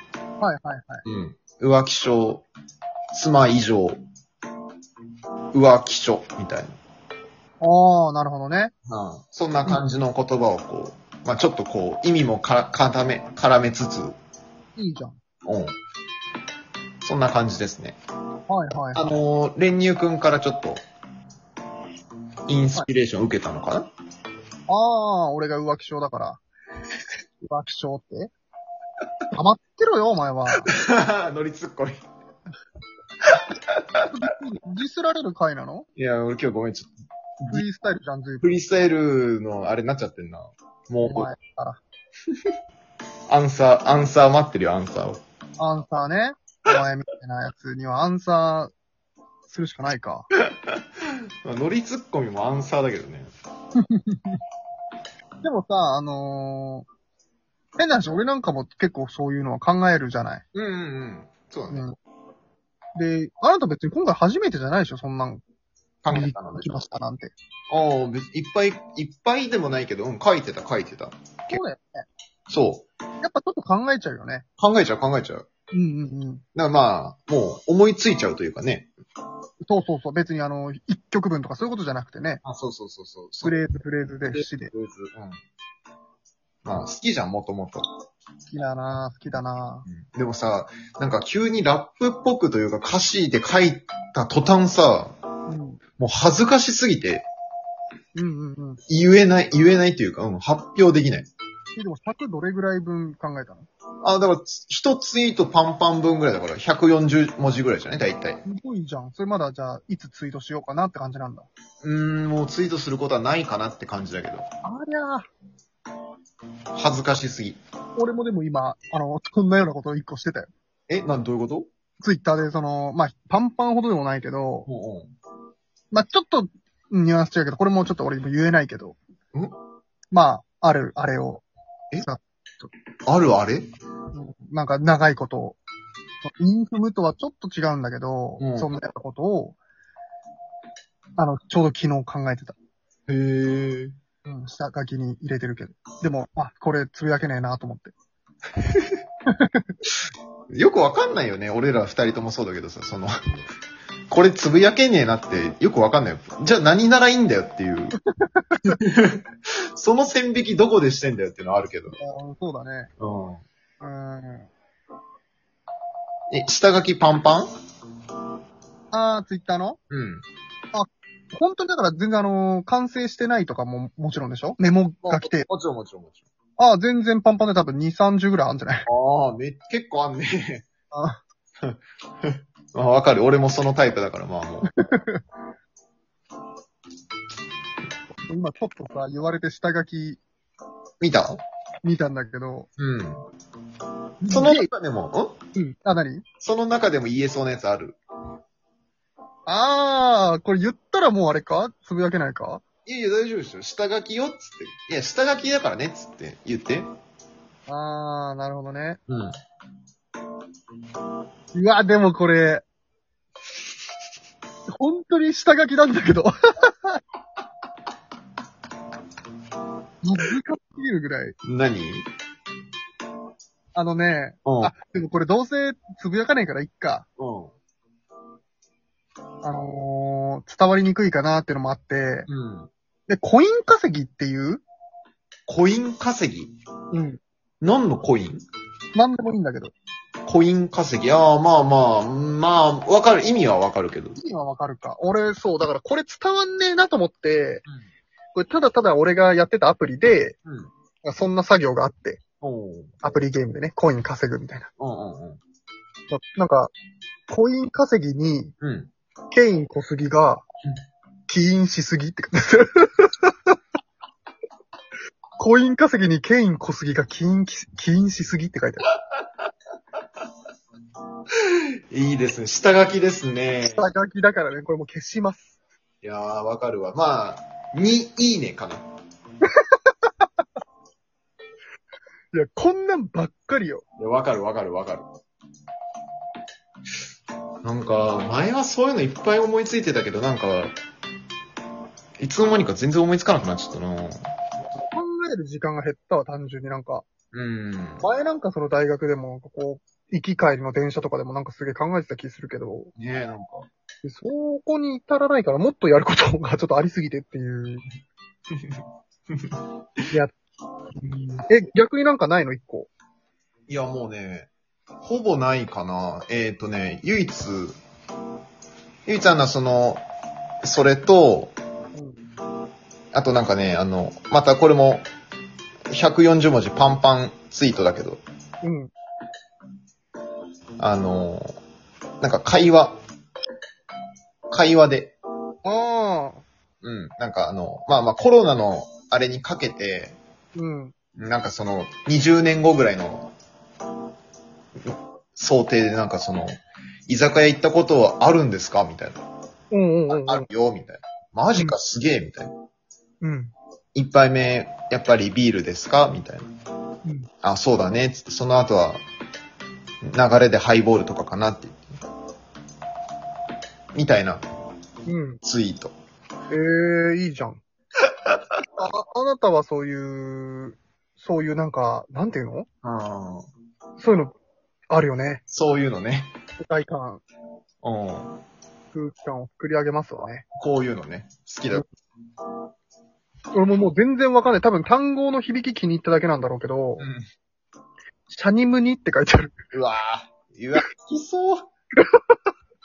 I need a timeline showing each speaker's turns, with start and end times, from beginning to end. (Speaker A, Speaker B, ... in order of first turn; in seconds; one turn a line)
Speaker A: 0.4-1.0
Speaker B: 1.1-2.5
Speaker B: 3.1-4.0
Speaker B: 5.5-6.8
Speaker A: 7.6-8.7
Speaker B: 8.9-14.2
Speaker A: 14.8-15.2
Speaker B: 15.4-15.7
Speaker B: 17.0-18.0
Speaker A: 18.5-19.1
Speaker B: 18.9-20.8
Speaker B: 22.5-23.9
Speaker A: 24.7-26.4
Speaker A: 27.4-28.3
Speaker A: 29.3-30.7
Speaker B: 30.7-31.9
Speaker A: 34.0-35.9
Speaker B: 36.0-37.6
Speaker A: 37.5-38.6
Speaker B: 38.4-41.3
Speaker A: 41.0-41.8
Speaker B: 43.3-45.2
Speaker A: 45.6-48.7
Speaker A: 49.5-50.3
Speaker B: 51.4-53.3
Speaker A: 53.8-54.4
Speaker A: 55.4-56.9
Speaker A: 57.8-60.4
Speaker B: 60.5-61.9
Speaker A: 61.7-62.0
Speaker A: 63.0-65.4
Speaker B: 66.0-66.9
Speaker A: 66.1-67.3
Speaker B: 67.7-71.6
Speaker A: 71.5-72.1
Speaker B: 72.5-72.9
Speaker A: 73.2-74.5
Speaker B: 74.6-75.5
Speaker A: 75.7-76.4
Speaker B: 76.5-78.9
Speaker A: 79.6-82.4
Speaker B: 82.4-83.6
Speaker A: 83.4-84.7
Speaker B: 84.3-85.4
Speaker B: 86.7-87.8
Speaker A: 88.5-89.9
Speaker B: 89.9-95.2
Speaker A: 95.5-95.8
Speaker B: 96.0-97.3
Speaker A: 98.2-98.8
Speaker B: 98.9-101.3
Speaker A: 101.8-103.7
Speaker B: 104.0-108.4
Speaker A: 108.4-111.5
Speaker B: 111.8-114.5
Speaker A: 114.6-115.3
Speaker B: 116.7-117.6
Speaker A: 118.0-120.5
Speaker B: 120.9-121.7
Speaker A: 122.0-124.7
Speaker B: 124.7-125.1
Speaker A: 125.9-129.0
Speaker A: 130.1-131.4
Speaker A: 132.0-132.7
Speaker B: 133.1-133.7
Speaker A: 134.1-135.6
Speaker A: 136.2-139.6
Speaker B: 138.4-138.7
Speaker A: 141.2-142.6
Speaker B: 143.1-143.9
Speaker A: 144.2-147.9
Speaker A: 149.3-149.8
Speaker B: 150.5-153.1
Speaker B: 154.1-158.0
Speaker A: 158.1-158.8
Speaker B: 158.8-161.9
Speaker A: 161.9-162.9
Speaker B: 163.0-163.4
Speaker A: 163.8-164.5
Speaker B: 166.3-167.5
Speaker A: 168.9-169.8
Speaker B: 169.9-170.2
Speaker A: 170.7-175.5
Speaker B: 175.0-176.2
Speaker A: 176.6-178.9
Speaker B: 178.9-180.7
Speaker A: 180.9-181.2
Speaker B: 181.6-184.7
Speaker A: 184.7-185.2
Speaker A: 188.2-190.2
Speaker B: 191.0-191.4
Speaker A: 191.8-192.7
Speaker B: 192.8-193.2
Speaker A: 194.2-194.7
Speaker B: 194.3-195.4
Speaker A: 195.6-196.2
Speaker B: 196.4-198.0
Speaker A: 199.5-202.6
Speaker B: 202.8-206.9
Speaker A: 207.7-209.0
Speaker B: 209.1-209.3
Speaker A: 211.5-212.7
Speaker A: 214.7-217.0
Speaker A: 220.0-221.4
Speaker B: 221.4-222.0
Speaker A: 223.8-227.1
Speaker B: 224.4-224.7
Speaker B: 227.2-227.6
Speaker A: 229.4-232.3
Speaker B: 232.3-232.7
Speaker A: 233.1-234.7
Speaker B: 235.5-236.5
Speaker A: 236.9-237.2
Speaker B: 237.6-238.4
Speaker A: 238.9-239.7
Speaker B: 240.3-244.2
Speaker A: 244.2-247.6
Speaker A: 248.3-250.4
Speaker B: 250.5-250.7
Speaker A: 251.0-252.2
Speaker B: 252.4-253.0
Speaker A: 253.0-254.7
Speaker B: 254.8-255.4
Speaker A: 256.1-256.7
Speaker A: 257.3-258.5
Speaker B: 258.6-258.9
Speaker A: 259.3-260.4
Speaker A: 261.3-263.6
Speaker A: 265.4-268.9
Speaker B: 271.9-273.9
Speaker A: 273.6-275.6
Speaker B: 276.0-278.9
Speaker A: 279.4-280.3
Speaker A: 282.3-283.8
Speaker B: 284.0-285.1
Speaker B: 287.6-290.7
Speaker B: 292.2-294.2
Speaker A: 294.6-297.1
Speaker B: 297.3-298.1
Speaker A: 298.0-302.9
Speaker B: 303.0-303.7
Speaker A: 304.0-307.9
Speaker A: 311.0-312.9
Speaker B: 313.7-314.5
Speaker B: 315.0-317.8
Speaker B: 319.1-320.0
Speaker B: 320.6-321.5
Speaker A: 321.9-322.2
Speaker B: 323.1-325.1
Speaker B: 325.9-328.2
Speaker A: 328.6-328.9
Speaker B: 330.8-331.6
Speaker B: 332.2-333.0
Speaker B: 334.5-335.2
Speaker A: 335.6-336.4
Speaker B: 336.8-340.2
Speaker A: 340.6-340.9
Speaker B: 341.2-343.3
Speaker B: 345.4-346.5
Speaker B: 347.1-349.2
Speaker A: 349.7-350.5
Speaker B: 350.1-352.5
Speaker A: 353.2-353.5
Speaker B: 353.9-356.5
Speaker B: 357.4-359.0
Speaker B: 360.0-361.9
Speaker B: 363.9-364.4
Speaker A: 365.1-365.4
Speaker B: 365.4-365.9
Speaker A: 366.5-367.6
Speaker B: 368.1-368.4
Speaker A: 368.8-372.7
Speaker B: 372.8-373.5
Speaker A: 374.0-374.3
Speaker A: 374.9-375.4
Speaker B: 375.5-376.3
Speaker A: 376.6-377.2
Speaker B: 377.8-378.4
Speaker A: 378.9-380.5
Speaker B: 380.6-381.8
Speaker A: 383.5-387.1
Speaker A: 388.3-389.6
Speaker B: 389.7-391.7
Speaker A: 392.0-392.4